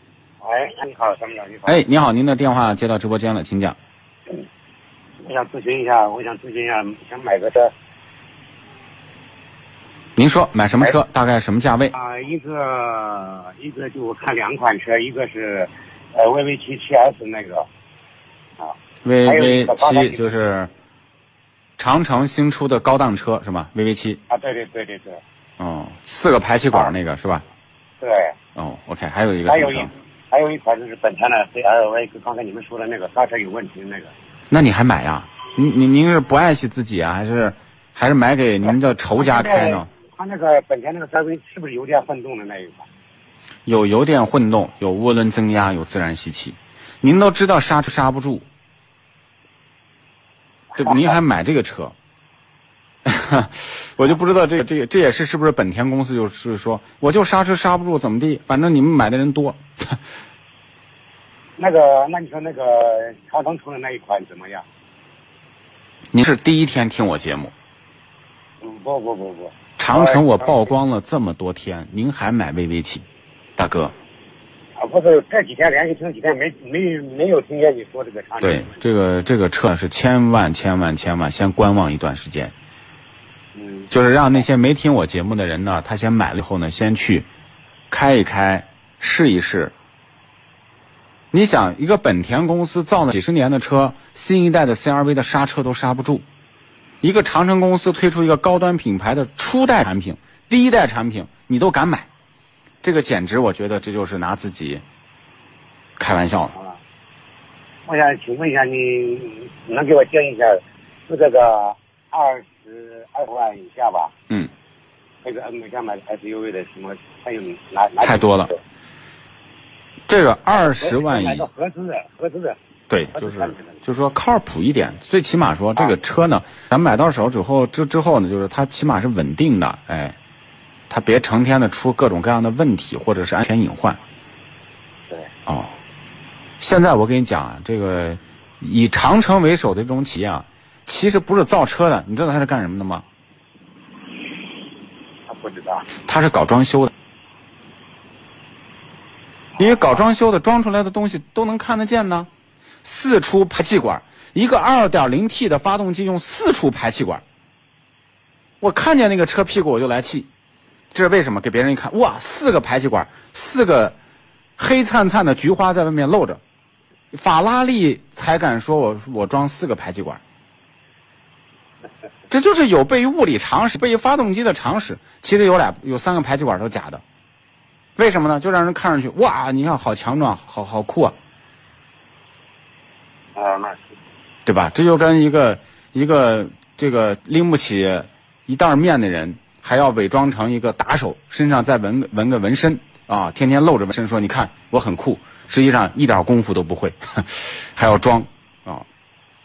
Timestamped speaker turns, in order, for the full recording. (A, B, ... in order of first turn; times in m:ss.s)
0:00.4-0:01.8 A
0:01.7-0:03.8 B
0:05.2-0:07.7 A
0:10.2-0:11.9 B
0:11.9-0:17.7 A
0:18.6-0:20.2 A
0:19.0-0:20.7 B
0:21.8-0:24.2 B
0:24.3-0:25.2 A
0:25.6-0:27.4 B
0:28.0-0:28.4 A
0:28.6-0:29.9 B
0:29.5-0:34.1 A
0:34.5-0:39.9 B
0:39.2-0:42.9 A
0:43.7-0:48.5 B
0:50.8-0:52.0 B
0:53.0-1:00.0 B
1:01.6-1:04.6 A
1:06.1-1:07.5 B
1:08.6-1:10.6 A
1:09.8-1:13.1 B
1:13.6-1:13.9 B
1:14.8-1:18.8 A
1:18.4-1:22.5 B
1:23.6-1:23.9 A
1:23.9-1:27.3 B
1:27.9-1:29.7 B
1:31.3-1:36.2 B
1:37.0-1:42.1 B
1:42.8-1:44.8 B
1:46.0-1:46.5 B
1:46.5-1:46.8 A
1:47.9-1:54.1 A
1:55.2-1:58.6 A
1:58.0-1:58.5 B
2:00.1-2:01.5 B
2:00.5-2:02.6 A
2:02.9-2:10.2 B
2:03.2-2:03.8 A
2:10.9-2:14.0 B
2:15.5-2:15.7 B
2:16.6-2:23.0 B
2:25.3-2:25.9 A
2:26.1-2:26.9 B
2:29.6-2:32.3 B
2:32.8-2:37.2 B
2:38.6-2:40.3 B
2:40.9-2:44.0 B
2:44.6-2:46.4 B
2:47.1-2:50.2 B
2:52.3-2:57.0 B
2:58.0-3:01.2 B
3:03.4-3:03.8 A
3:04.5-3:18.9 B